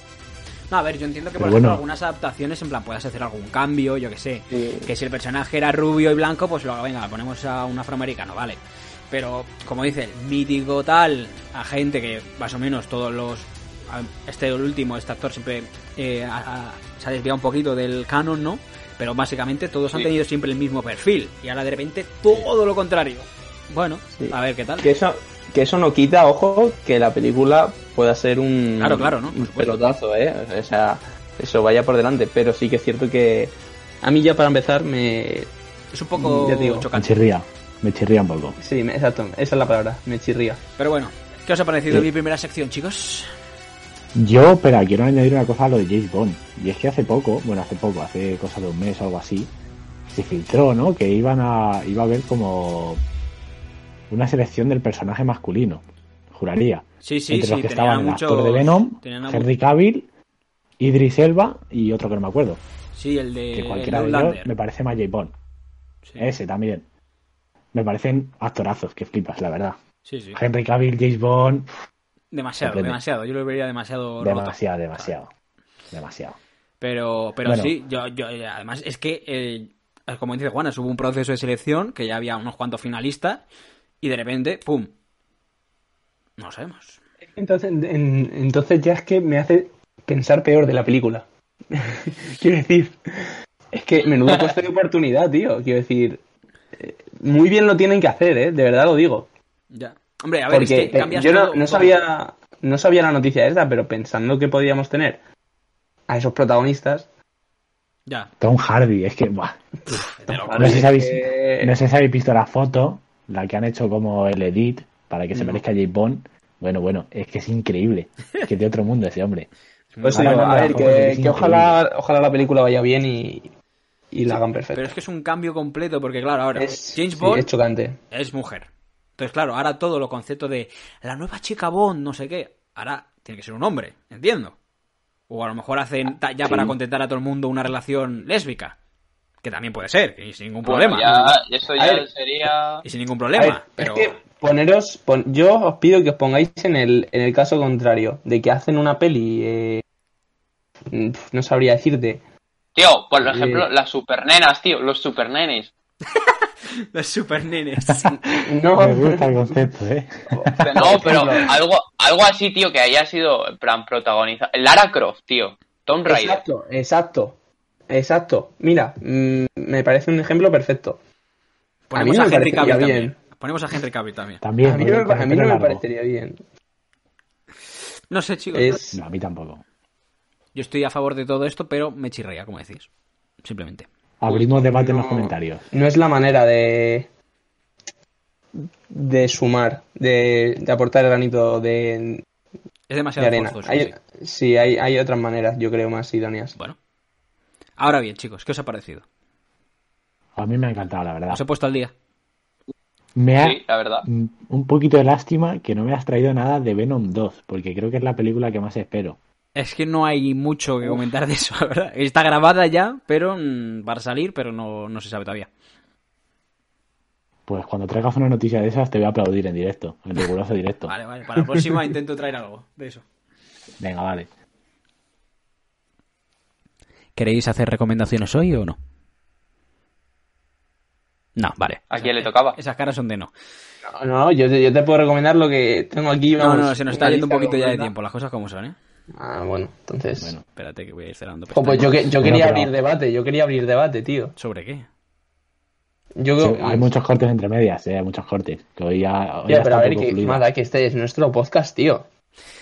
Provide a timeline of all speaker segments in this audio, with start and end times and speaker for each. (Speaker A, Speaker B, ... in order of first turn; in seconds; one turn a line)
Speaker A: 0.7-24.9
Speaker B: 1.4-1.8
Speaker C: 4.5-4.9
Speaker C: 24.2-35.5
Speaker A: 28.8-29.8
Speaker A: 35.9-37.2
Speaker C: 36.2-36.9
Speaker B: 36.9-38.6
Speaker C: 38.6-40.6
Speaker A: 40.8-43.3
Speaker B: 44.1-49.5
Speaker B: 50.1-53.0
Speaker B: 54.1-60.1
Speaker A: 57.0-59.5
Speaker B: 60.8-62.6
Speaker A: 62.9-64.5
Speaker B: 63.5-65.3
Speaker A: 66.0-66.3
Speaker B: 66.2-66.9
Speaker B: 67.7-69.8
Speaker A: 70.0-70.4
Speaker B: 70.3-71.7
Speaker A: 72.3-75.1
Speaker B: 72.6-73.0
Speaker B: 74.2-75.3
Speaker B: 75.9-76.4
Speaker A: 76.8-83.4
Speaker B: 77.4-77.7
Speaker A: 84.0-84.9
Speaker A: 86.4-87.0
Speaker C: 87.3-96.2
Speaker C: 96.8-99.3
Speaker A: 99.7-102.0
Speaker C: 100.5-105.2
Speaker C: 106.1-107.1
Speaker B: 108.4-109.6
Speaker A: 109.9-110.9
Speaker C: 110.3-111.8
Speaker B: 110.5-119.5
Speaker C: 115.3-115.6
Speaker A: 119.9-121.0
Speaker C: 120.0-123.5
Speaker B: 120.1-121.8
Speaker C: 124.1-125.0
Speaker A: 124.3-127.5
Speaker C: 126.6-128.0
Speaker A: 128.1-134.6
Speaker A: 135.3-138.8
Speaker A: 139.4-141.1
Speaker D: 140.7-142.8
Speaker C: 141.0-142.1
Speaker A: 142.8-144.2
Speaker C: 143.4-149.8
Speaker C: 150.9-152.2
Speaker D: 152.8-155.7
Speaker C: 153.2-153.7
Speaker A: 156.9-158.3
Speaker C: 158.4-159.5
Speaker B: 158.8-161.4
Speaker C: 160.3-161.6
Speaker D: 160.6-166.4
Speaker C: 166.1-167.4
Speaker C: 167.9-171.0
Speaker A: 171.9-174.4
Speaker C: 171.9-173.2
Speaker B: 174.4-175.8
Speaker C: 174.6-176.4
Speaker A: 178.1-178.9
Speaker C: 178.5-179.0
Speaker B: 178.9-179.6
Speaker A: 180.5-182.9
Speaker A: 183.4-183.9
Speaker B: 184.2-185.6
Speaker C: 184.3-187.1
Speaker C: 188.5-192.2
Speaker A: 192.9-193.9
Speaker C: 193.2-196.6
Speaker A: 197.8-199.0
Speaker B: 200.4-201.4
Speaker A: 201.3-201.9
Speaker B: 203.2-209.2
Speaker D: 203.4-204.1
Speaker A: 209.6-215.5
Speaker B: 217.5-220.9
Speaker A: 220.9-223.1
Speaker B: 223.8-224.3
Speaker A: 227.2-228.8
Speaker A: 231.4-233.3
Speaker D: 231.9-232.6
Speaker C: 233.8-237.9
Speaker A: 236.4-238.8
Speaker C: 239.2-240.3
Speaker B: 240.2-240.5
Speaker A: 240.6-242.2
Speaker C: 241.5-244.3
Speaker B: 242.2-242.7
Speaker A: 244.4-244.9
Speaker C: 246.2-246.9
Speaker B: 246.4-250.5
Speaker C: 249.5-252.1